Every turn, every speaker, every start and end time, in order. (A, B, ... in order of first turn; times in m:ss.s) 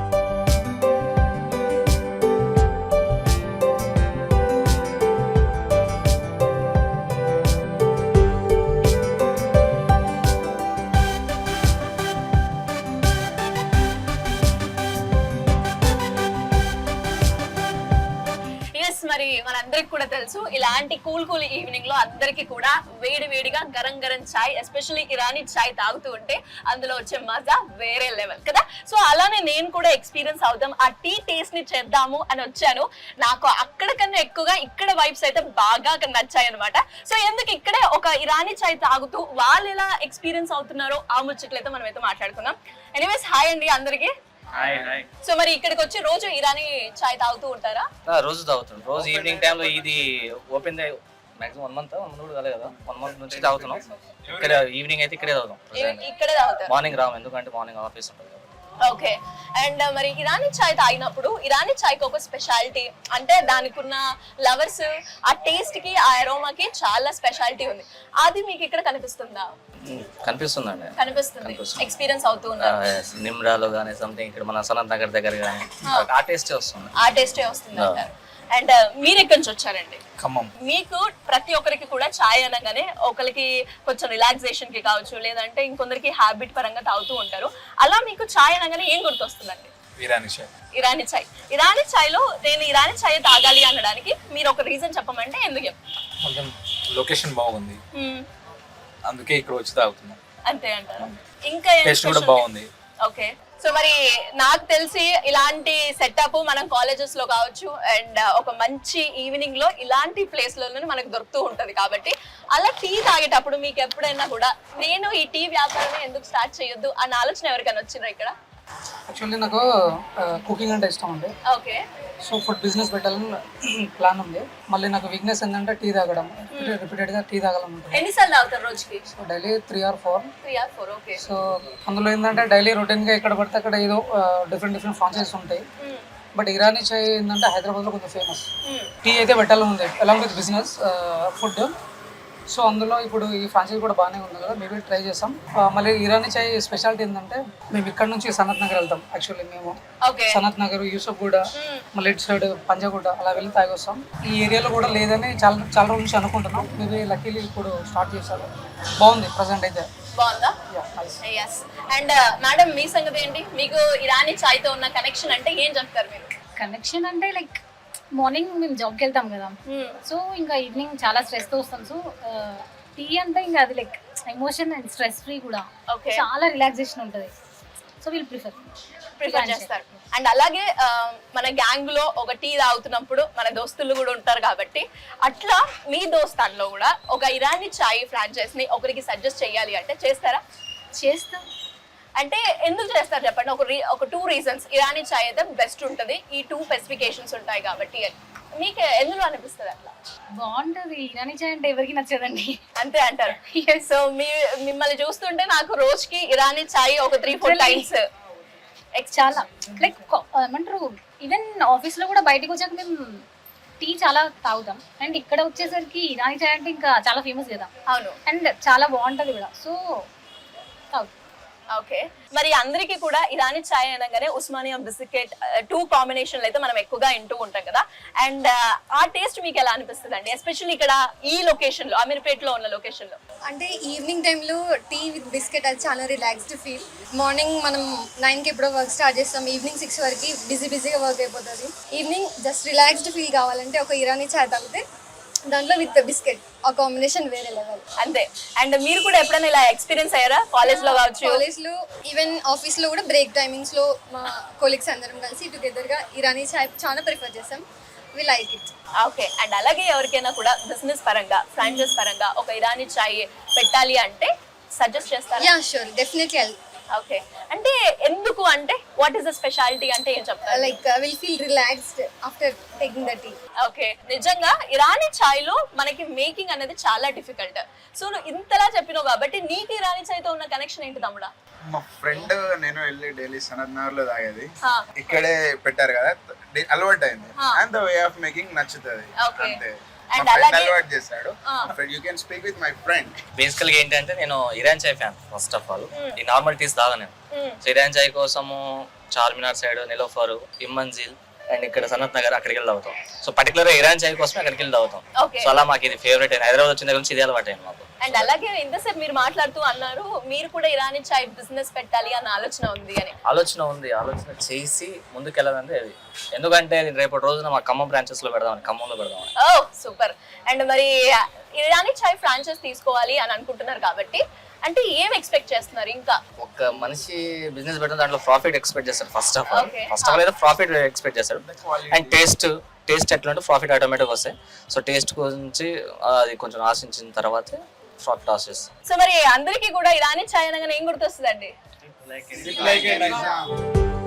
0:18.8-0:44.1 A
0:44.6-0:45.0 B
0:44.7-0:45.0 C
0:45.2-0:47.9 A
0:48.1-0:56.1 B
0:49.0-0:49.9 C
0:53.0-0:53.8 C
0:55.7-0:56.7 A
0:56.7-0:58.6 B
0:58.9-1:09.5 A
1:09.9-1:11.9 B
1:11.0-1:12.8 A
1:12.6-1:18.1 B
1:15.8-1:16.1 A
1:17.0-1:20.0 A
1:20.2-1:20.5 C
1:20.6-1:29.7 A
1:30.0-1:30.5 C
1:30.8-1:35.8 A
1:36.2-1:37.8 C
1:37.9-1:38.2 A
1:39.0-1:40.2 C
1:40.5-1:42.5 A
1:41.8-1:42.7 C
1:43.0-1:58.3 A
1:59.1-1:59.6 D
2:00.2-2:01.3 D
2:01.5-2:01.8 A
2:02.2-2:03.3 D
2:04.0-2:07.9 D
2:06.5-2:06.8 A
2:07.9-2:09.0 A
2:09.1-2:10.3 D
2:10.4-2:11.2 A
2:11.2-2:15.6 D
2:15.8-2:16.1 A
2:16.4-2:18.5 D
2:18.6-2:18.9 A
2:19.0-2:21.7 D
2:22.6-2:29.7 D
2:30.0-2:30.4 A
2:30.3-2:31.4 D
2:31.6-2:31.8 A
2:31.9-2:38.5 D
2:39.0-2:39.8 D
2:40.2-2:40.6 A
2:40.7-2:41.2 D
2:41.2-2:46.3 A
2:46.6-2:47.6 E
2:48.2-2:57.3 E
2:49.7-2:50.0 A
2:55.9-2:56.2 A
2:58.0-2:58.6 E
2:59.2-3:10.4 A
2:59.3-3:00.0 E
3:11.0-3:11.4 E
3:12.2-3:19.9 A
3:20.4-3:22.6 E
3:22.8-3:28.0 A
3:23.4-3:23.8 E
3:27.3-3:27.9 E
3:29.0-3:29.9 A
3:29.1-3:32.9 E
3:33.8-3:37.7 E
3:37.9-3:38.2 A
3:38.3-3:39.8 E
3:41.7-3:53.2 A
3:53.5-4:04.8 F
4:05.5-4:07.8 F
4:08.0-4:11.4 A
4:10.6-4:17.6 F
4:18.2-4:18.7 F
4:19.0-4:25.5 A
4:21.6-4:22.0 F
4:25.4-4:26.6 F
4:26.9-4:30.8 A
4:30.5-4:33.3 F
4:33.6-4:41.3 A
4:41.7-4:53.1 G
4:44.6-4:44.9 A
4:49.2-4:49.6 A
4:50.1-4:50.8 A
4:53.4-5:08.3 B
4:55.9-4:56.2 A
4:57.3-4:57.6 A
5:05.2-5:05.6 A
5:08.0-5:13.2 A
5:13.3-5:19.3 B
5:19.4-5:26.2 A
5:26.4-5:38.7 B
5:29.5-5:30.2 A
5:31.4-5:32.2 G
5:38.9-5:41.5 A
5:42.3-5:42.7 B
5:42.4-5:43.5 G
5:42.8-5:43.2 C